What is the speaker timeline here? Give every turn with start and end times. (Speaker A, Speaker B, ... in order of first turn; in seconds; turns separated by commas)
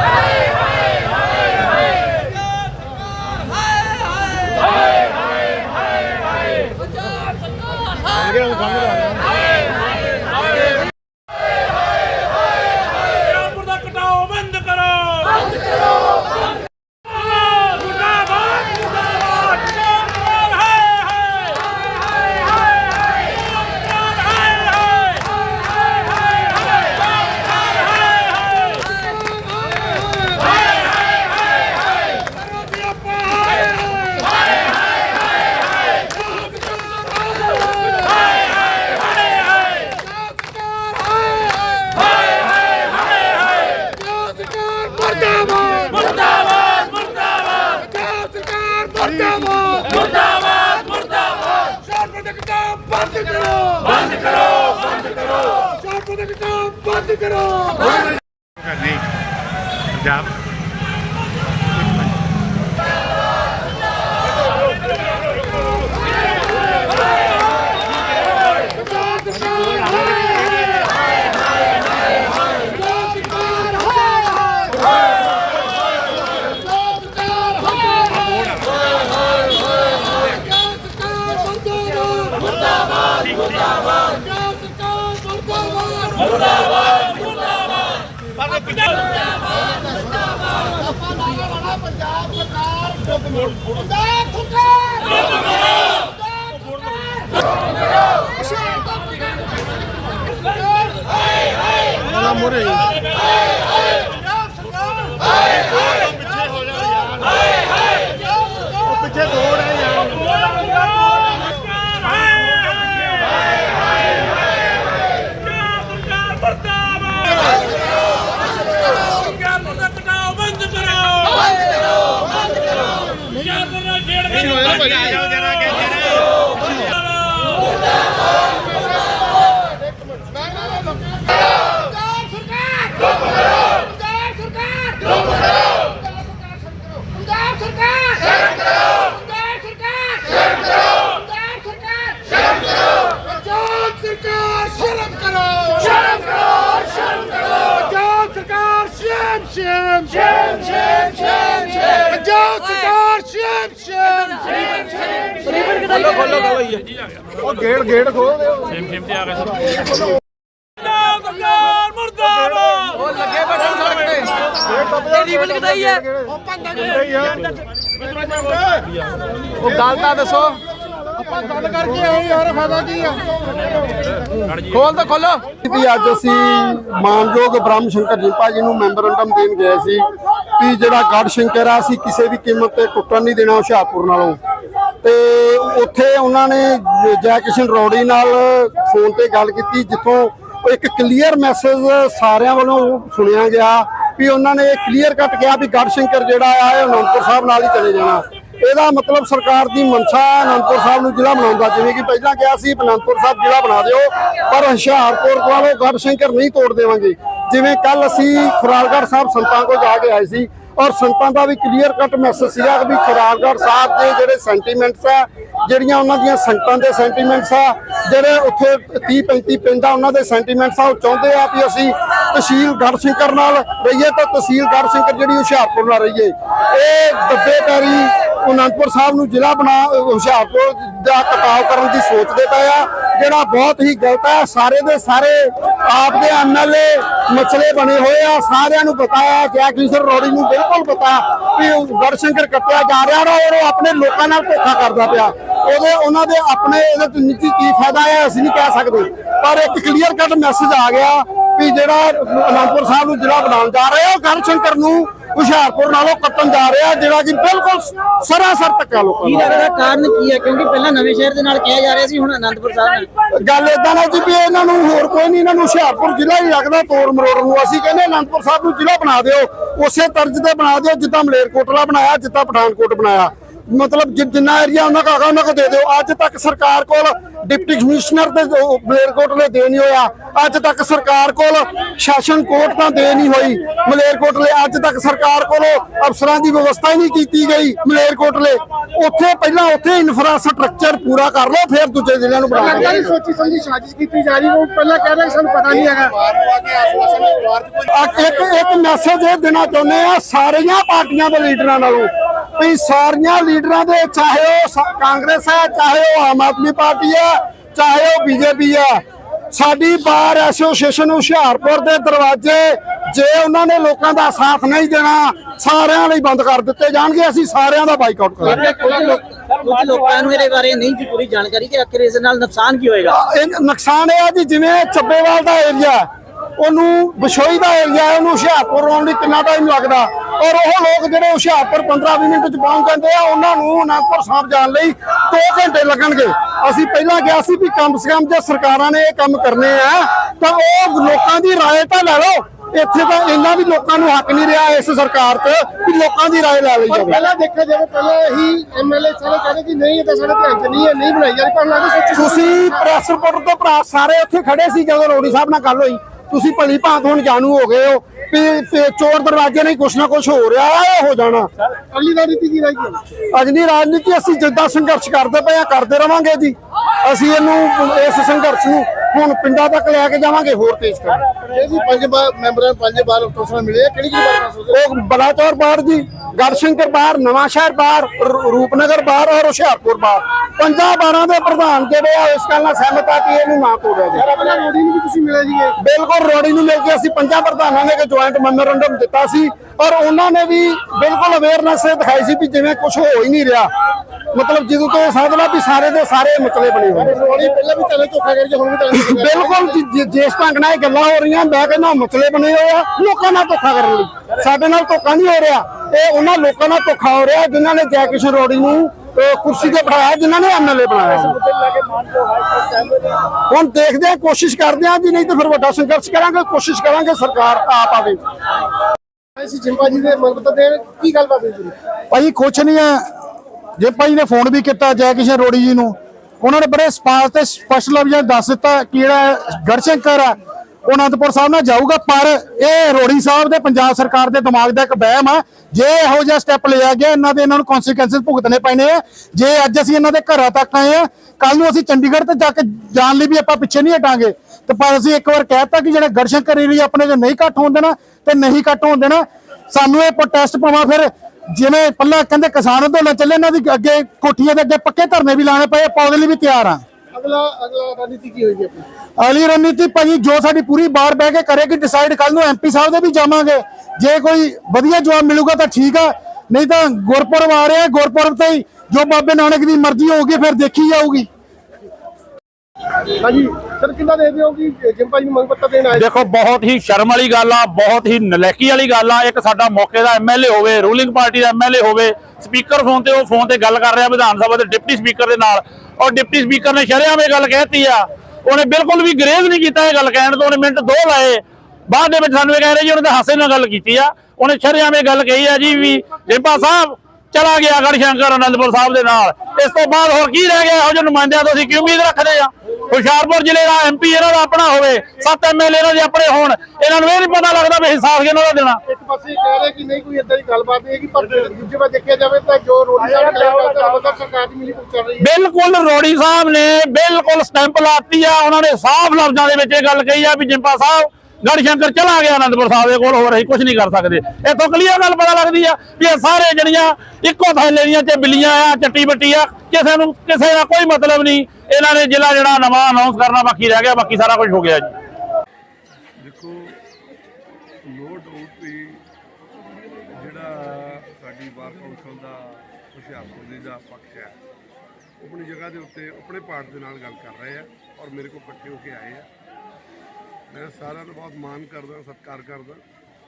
Speaker A: 13.5-15.2, Speaker B: 44.1-45.5, Speaker B: 48.0-49.8, Speaker B: 52.3-53.6, Speaker B: 102.2-102.7, Speaker A: 115.7-117.3, Speaker A: 119.5-121.3, Speaker A: 123.6-125.1, Speaker B: 144.6-145.2, Speaker B: 148.4-150.0, Speaker B: 152.4-153.9, Speaker C: 155.9-156.3, Speaker B: 157.5-158.6, Speaker C: 163.5-164.3, Speaker C: 165.6-166.0, Speaker C: 169.7-170.6, Speaker C: 174.7-175.4, Speaker D: 175.6-180.0, Speaker D: 180.6-184.4, Speaker D: 185.0-259.7, Speaker E: 259.2-263.1, Speaker D: 263.4-293.1, Speaker B: 292.5-296.3, Speaker B: 296.9-297.5, Speaker D: 297.9-318.9, Speaker E: 318.4-323.1, Speaker D: 323.1-326.1, Speaker D: 326.6-347.2, Speaker B: 346.9-352.6, Speaker D: 352.1-361.5, Speaker B: 361.9-363.1, Speaker D: 363.3-371.2, Speaker B: 371.5-374.7, Speaker D: 374.7-384.2, Speaker B: 384.1-385.7, Speaker D: 385.8-393.7, Speaker D: 394.3-397.2, Speaker B: 396.9-399.8, Speaker D: 398.9-411.4, Speaker D: 413.5-418.2, Speaker B: 419.4-421.8, Speaker F: 422.1-423.0, Speaker F: 423.8-456.8, Speaker B: 457.1-458.9, Speaker F: 459.2-471.3, Speaker B: 473.2-476.1, Speaker A: 475.9-508.8, Speaker B: 508.9-515.3, Speaker A: 515.2-534.9, Speaker G: 536.2-536.8, Speaker G: 537.8-539.0, Speaker G: 540.1-544.4, Speaker G: 545.2-549.3, Speaker G: 550.5-552.8